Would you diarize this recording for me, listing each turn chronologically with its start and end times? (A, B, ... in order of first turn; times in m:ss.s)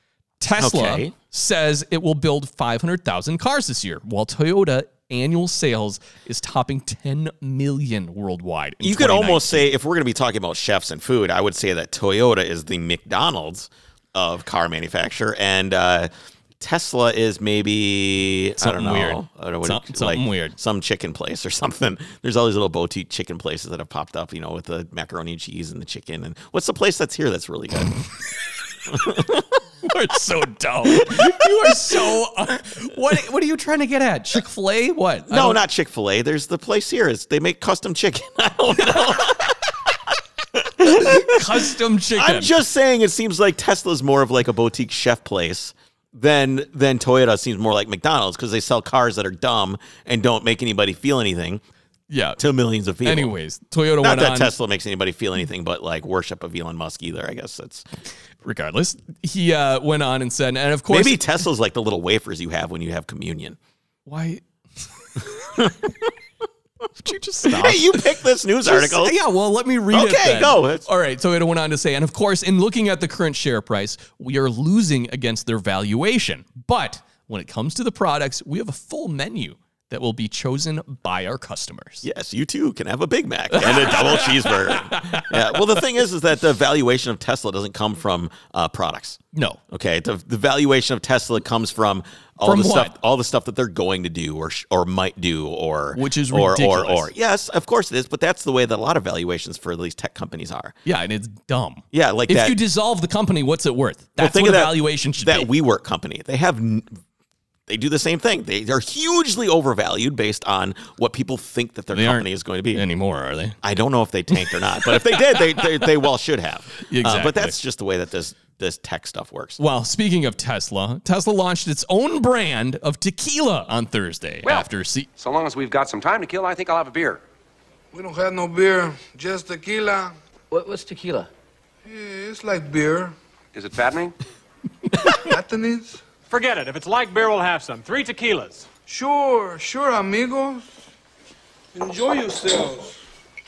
0:00.4-0:09.7 A
0:00.6-0:01.1 B
0:08.8-0:16.1 B
0:16.6-0:27.9 B
0:18.6-0:20.6 A
0:28.9-0:29.6 B
0:29.8-0:35.6 A
0:30.9-0:32.0 B
0:35.3-0:39.6 B
0:40.5-0:51.6 B
0:40.8-0:42.6 A
0:52.1-0:52.4 A
0:52.4-0:53.3 B
0:53.0-0:54.5 A
0:54.0-0:57.8 B
0:58.4-1:01.2 A
1:00.9-1:03.6 B
1:04.0-1:04.4 A
1:05.4-1:05.7 A
1:05.6-1:06.0 B
1:07.0-1:08.0 A
1:07.4-1:09.2 B
1:08.6-1:22.0 A
1:09.9-1:10.8 B
1:22.0-1:40.7 B
1:23.5-1:25.6 A
1:29.3-1:29.6 A
1:32.4-1:32.9 A
1:35.9-1:37.1 A
1:40.8-1:45.5 A
1:41.9-1:42.6 B
1:44.2-1:47.0 B
1:47.7-1:52.8 B
1:51.9-1:53.6 A
1:53.6-1:59.6 B
1:54.8-1:55.9 A
1:56.8-1:57.6 A
1:59.6-2:05.1 A
2:05.2-2:07.2 C
2:07.9-2:10.1 D
2:11.8-2:13.1 D
2:13.5-2:14.1 C
2:15.1-2:16.0 D
2:16.3-2:18.7 E
2:18.9-2:20.6 D
2:21.7-2:23.0 D